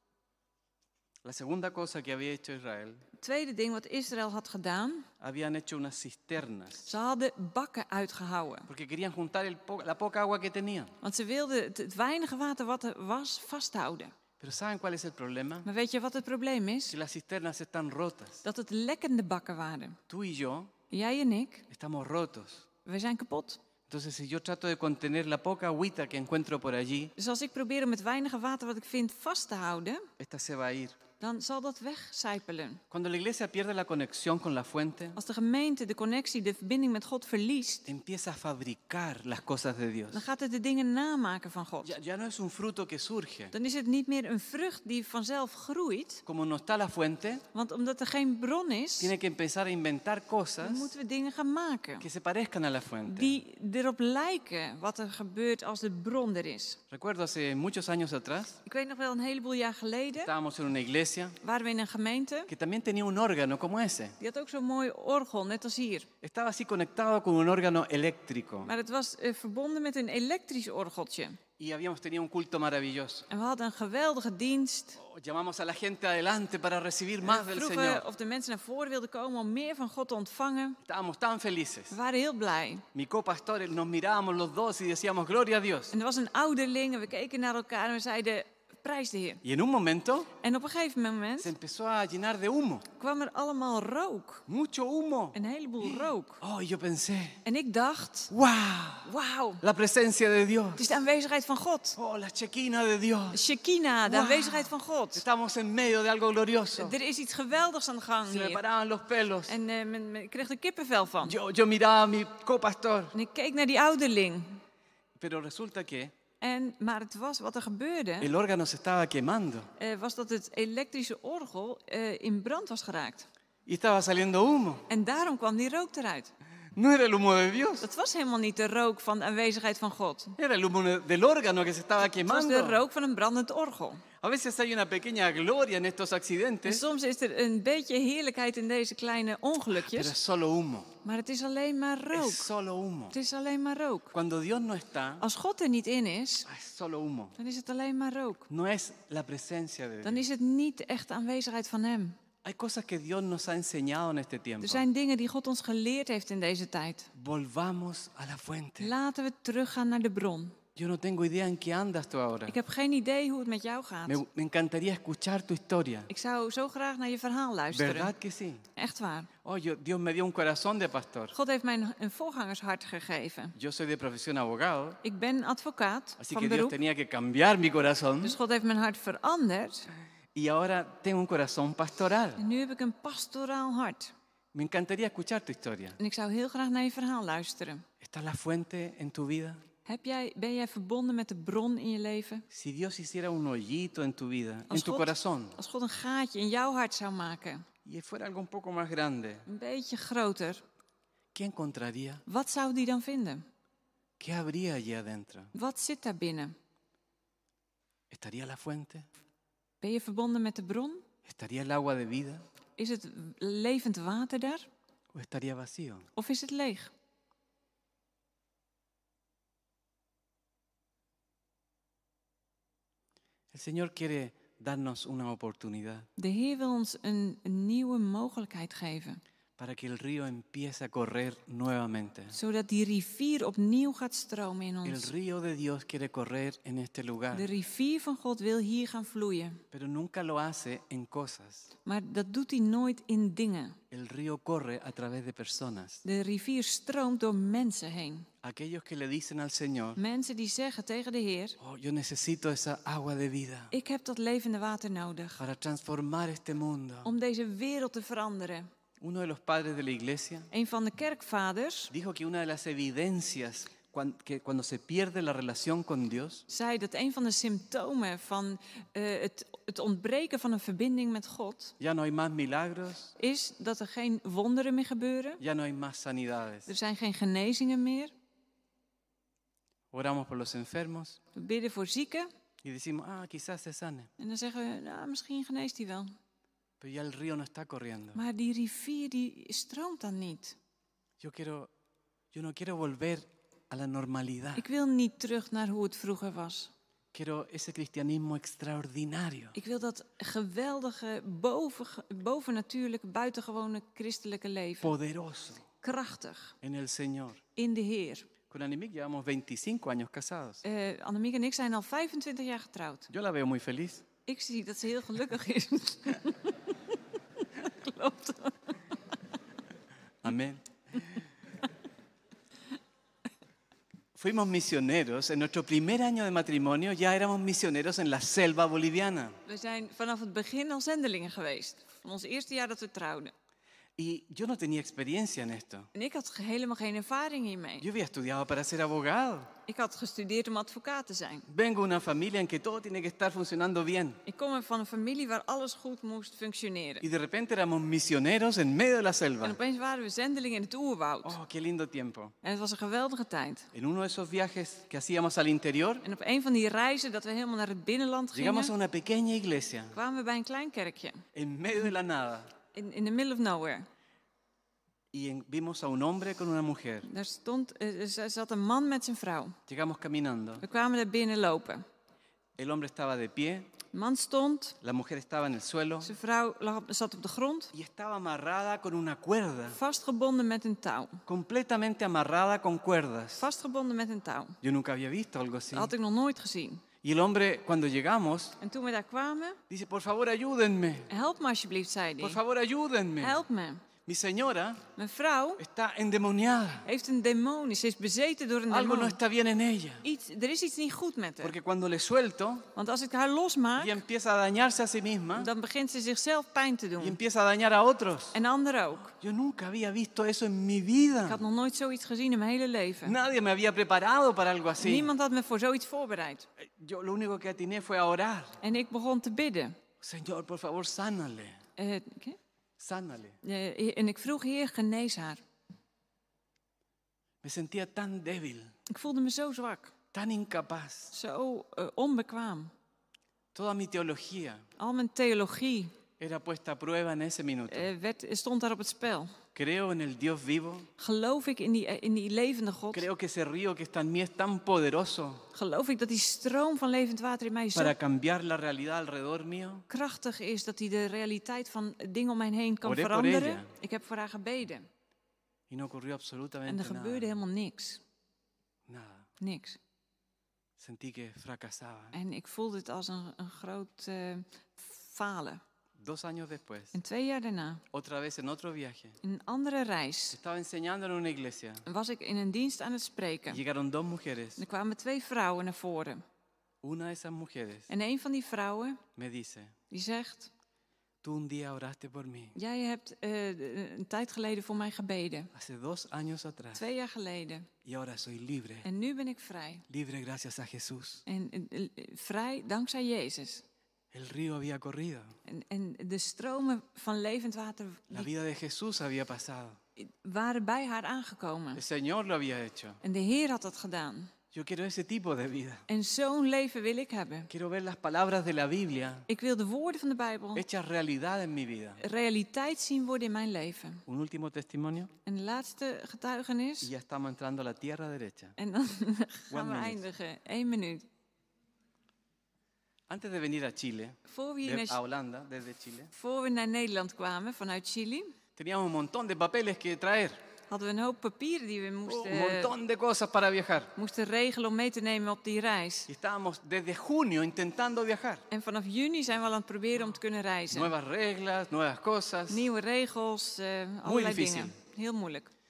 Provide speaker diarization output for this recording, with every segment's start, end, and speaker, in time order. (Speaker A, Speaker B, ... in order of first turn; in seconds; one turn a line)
Speaker A: 1.2-3.0
Speaker B: 3.2-5.1
Speaker A: 5.2-6.9
Speaker B: 6.8-8.7
Speaker A: 8.7-10.9
Speaker B: 11.0-14.1
Speaker A: 14.4-15.7
Speaker B: 15.6-16.9
Speaker A: 16.9-18.4
Speaker B: 18.4-20.0
Speaker A: 20.1-20.7
Speaker B: 20.9-21.6
Speaker A: 21.7-22.6
Speaker B: 22.8-23.6
Speaker A: 23.9-27.1
Speaker B: 27.2-30.1
Speaker A: 30.2-30.9
Speaker B: 31.2-32.8
Speaker A: 32.9-35.2
Speaker B: 35.1-37.9
Speaker A: 37.9-40.2
Speaker B: 40.1-41.9
Speaker A: 41.8-43.5
Speaker B: 43.5-46.2
Speaker A: 46.2-47.4
Speaker B: 47.5-49.1
Speaker A: 49.0-50.9
Speaker B: 50.6-52.0
Speaker A: 52.0-53.4
Speaker B: 53.1-56.8
Speaker A: 56.9-58.6
Speaker B: 58.6-60.3
Speaker A: 60.2-61.4
Speaker B: 61.4-62.5
Speaker A: 62.5-64.2
Speaker B: 64.2-66.1
Speaker A: 66.2-68.7
Speaker B: 68.6-71.4
Speaker A: 71.6-73.3
Speaker B: 73.3-75.0
Speaker A: 75.0-78.0
Speaker B: 77.2-80.8
Speaker A: 80.8-82.0
Speaker B: 81.9-82.8
Speaker A: 82.9-85.9
Speaker B: 85.9-89.4
Speaker A: 89.4-90.3
Speaker B: 90.4-91.5
Speaker A: 91.4-92.8
Speaker B: 93.0-94.4
Speaker A: 94.5-97.4
Speaker B: 95.3-96.4
Speaker B: 97.4-98.3
Speaker A: 98.3-99.1
Speaker B: 99.0-99.6
Speaker A: 99.6-100.9
Speaker B: 100.8-102.0
Speaker A: 102.0-103.4
Speaker B: 103.3-105.2
Speaker A: 104.0-107.0
Speaker B: 106.8-108.6
Speaker A: 108.2-109.5
Speaker B: 109.5-111.3
Speaker A: 111.2-113.1
Speaker B: 113.1-114.6
Speaker A: 115.2-116.1
Speaker B: 116.4-118.3
Speaker A: 118.2-119.7
Speaker B: 119.8-123.3
Speaker A: 123.7-124.8
Speaker B: 124.9-126.3
Speaker A: 126.7-127.8
Speaker B: 127.8-130.3
Speaker A: 130.4-132.8
Speaker B: 132.0-134.0
Speaker A: 134.2-136.8
Speaker B: 136.6-140.1
Speaker A: 139.7-140.9
Speaker B: 141.0-142.5
Speaker A: 142.1-143.1
Speaker B: 143.1-144.1
Speaker A: 144.1-145.2
Speaker B: 145.2-146.5
Speaker A: 146.5-147.3
Speaker B: 147.4-148.5
Speaker A: 148.5-150.2
Speaker B: 150.0-152.2
Speaker A: 152.4-154.8
Speaker B: 154.6-157.1
Speaker A: 157.1-158.9
Speaker B: 158.8-160.6
Speaker A: 160.8-162.6
Speaker B: 162.5-164.2
Speaker A: 164.1-166.1
Speaker B: 166.1-168.1
Speaker A: 167.7-168.6
Speaker B: 168.8-169.3
Speaker A: 169.4-171.3
Speaker B: 171.3-173.5
Speaker A: 173.6-175.0
Speaker B: 175.0-176.8
Speaker A: 176.2-178.4
Speaker B: 178.2-179.9
Speaker A: 180.3-182.4
Speaker B: 182.4-184.1
Speaker A: 184.5-186.0
Speaker B: 186.0-187.8
Speaker A: 188.0-189.6
Speaker B: 189.8-192.4
Speaker A: 192.5-195.6
Speaker B: 194.7-197.6
Speaker A: 197.8-199.4
Speaker B: 199.4-200.6
Speaker A: 201.3-202.2
Speaker B: 202.2-203.4
Speaker A: 204.2-205.5
Speaker B: 205.5-206.6
Speaker A: 208.1-209.1
Speaker B: 209.8-211.0
Speaker A: 211.2-212.4
Speaker B: 212.8-214.7
Speaker A: 215.1-216.1
Speaker B: 216.2-216.9
Speaker A: 223.5-226.1
Speaker B: 226.2-229.2
Speaker A: 229.6-232.3
Speaker B: 232.3-235.1
Speaker A: 234.8-237.5
Speaker B: 237.3-239.6
Speaker A: 239.7-241.7
Speaker B: 241.8-243.8
Speaker A: 243.9-246.0
Speaker B: 246.0-248.3
Speaker A: 248.4-250.0
Speaker B: 250.0-251.6
Speaker A: 251.6-253.7
Speaker B: 253.7-255.4
Speaker A: 255.4-257.1
Speaker B: 257.0-258.7
Speaker A: 259.0-260.5
Speaker B: 260.5-261.9
Speaker A: 261.9-266.4
Speaker B: 266.5-271.7
Speaker A: 271.8-273.1
Speaker B: 273.2-275.4
Speaker A: 275.4-276.7
Speaker B: 276.7-278.1
Speaker A: 279.9-281.2
Speaker B: 281.3-282.3
Speaker A: 282.6-284.1
Speaker B: 284.2-286.1
Speaker A: 286.8-288.2
Speaker B: 288.1-290.6
Speaker A: 291.2-291.7
Speaker A: 292.3-294.6
Speaker B: 294.6-296.7
Speaker A: 297.1-299.6
Speaker B: 299.5-304.9
Speaker A: 304.8-305.6
Speaker B: 305.8-306.5
Speaker A: 306.6-307.4
Speaker B: 307.6-308.3
Speaker A: 308.5-310.6
Speaker B: 310.6-313.1
Speaker A: 313.1-314.0
Speaker B: 314.2-316.6
Speaker B: 317.4-318.8
Speaker A: 320.2-321.1
Speaker A: 324.1-329.4
Speaker B: 329.4-333.3
Speaker A: 334.0-335.9
Speaker B: 335.9-337.9
Speaker A: 337.8-339.5
Speaker B: 339.7-341.4
Speaker A: 341.5-344.2
Speaker B: 344.2-347.0
Speaker A: 347.0-349.6
Speaker B: 349.4-351.4
Speaker A: 351.2-352.3
Speaker B: 352.4-353.7
Speaker A: 353.7-356.0
Speaker B: 356.0-358.7
Speaker A: 358.3-359.9
Speaker B: 359.9-361.2
Speaker A: 361.3-362.5
Speaker B: 362.7-363.9
Speaker A: 365.1-367.1
Speaker B: 367.0-369.6
Speaker A: 369.7-370.6
Speaker B: 370.6-371.8
Speaker A: 372.6-373.7
Speaker B: 373.9-374.8
Speaker A: 374.8-376.1
Speaker B: 376.0-377.7
Speaker A: 377.7-379.8
Speaker B: 379.7-381.2
Speaker A: 381.3-383.4
Speaker B: 383.4-384.6
Speaker A: 384.6-385.9
Speaker B: 385.7-386.8
Speaker A: 387.0-388.6
Speaker B: 388.6-389.6
Speaker A: 389.7-391.1
Speaker B: 391.1-392.4
Speaker A: 392.2-393.4
Speaker B: 393.2-393.8
Speaker A: 394.1-394.8
Speaker B: 394.9-395.6
Speaker A: 395.6-396.9
Speaker B: 396.8-399.2
Speaker A: 398.7-400.0
Speaker B: 400.0-401.5
Speaker A: 401.4-402.7
Speaker B: 402.7-404.0
Speaker A: 403.8-405.5
Speaker B: 405.4-407.2
Speaker A: 407.0-408.4
Speaker B: 408.3-409.1
Speaker A: 409.2-411.4
Speaker B: 411.2-413.1
Speaker A: 413.0-415.1
Speaker B: 414.8-416.4
Speaker A: 416.6-418.6
Speaker B: 418.6-419.8
Speaker A: 420.0-421.6
Speaker B: 421.8-422.4
Speaker A: 422.8-423.4
Speaker B: 423.4-425.4
Speaker A: 427.4-428.7
Speaker B: 428.9-429.9
Speaker A: 430.1-431.1
Speaker B: 431.1-432.7
Speaker A: 433.5-434.6
Speaker B: 434.8-435.9
Speaker A: 436.2-437.9
Speaker B: 437.7-439.4
Speaker A: 439.5-440.9
Speaker B: 441.0-443.0
Speaker A: 442.9-445.4
Speaker B: 445.5-447.9
Speaker A: 447.7-449.8
Speaker B: 449.9-454.9
Speaker A: 452.8-453.7
Speaker A: 455.7-457.3
Speaker B: 456.7-458.0
Speaker A: 458.9-459.3
Speaker B: 459.4-459.8
Speaker A: 460.8-462.1
Speaker B: 462.1-465.6
Speaker A: 466.0-466.9
Speaker B: 466.9-467.8
Speaker A: 467.9-469.2
Speaker B: 469.2-470.4
Speaker A: 470.3-471.8
Speaker B: 471.9-473.6
Speaker A: 473.5-474.6
Speaker B: 474.6-476.2
Speaker A: 476.8-477.9
Speaker B: 477.9-479.0
Speaker A: 479.1-479.7
Speaker B: 479.9-480.5
Speaker A: 481.2-482.6
Speaker B: 482.6-485.5
Speaker A: 485.5-486.8
Speaker B: 486.7-487.7
Speaker A: 487.8-488.9
Speaker B: 488.8-489.8
Speaker A: 489.9-491.2
Speaker B: 491.3-493.6
Speaker A: 494.1-495.3
Speaker B: 495.4-498.3
Speaker A: 498.1-499.8
Speaker B: 500.0-501.8
Speaker A: 501.7-503.0
Speaker B: 503.0-504.3
Speaker A: 504.5-505.8
Speaker B: 505.9-507.5
Speaker A: 507.5-509.3
Speaker B: 509.3-510.6
Speaker A: 510.6-512.0
Speaker B: 512.0-514.0
Speaker A: 514.1-515.1
Speaker B: 515.2-516.9
Speaker A: 516.8-518.5
Speaker B: 518.6-521.1
Speaker A: 519.5-520.0
Speaker A: 523.1-526.1
Speaker B: 524.3-525.0
Speaker B: 526.1-528.3
Speaker A: 528.5-530.4
Speaker B: 530.7-532.7
Speaker A: 532.0-533.9
Speaker B: 534.0-536.1
Speaker A: 536.1-538.4
Speaker B: 538.5-540.9
Speaker A: 540.7-542.7
Speaker B: 542.5-545.5
Speaker A: 544.0-544.7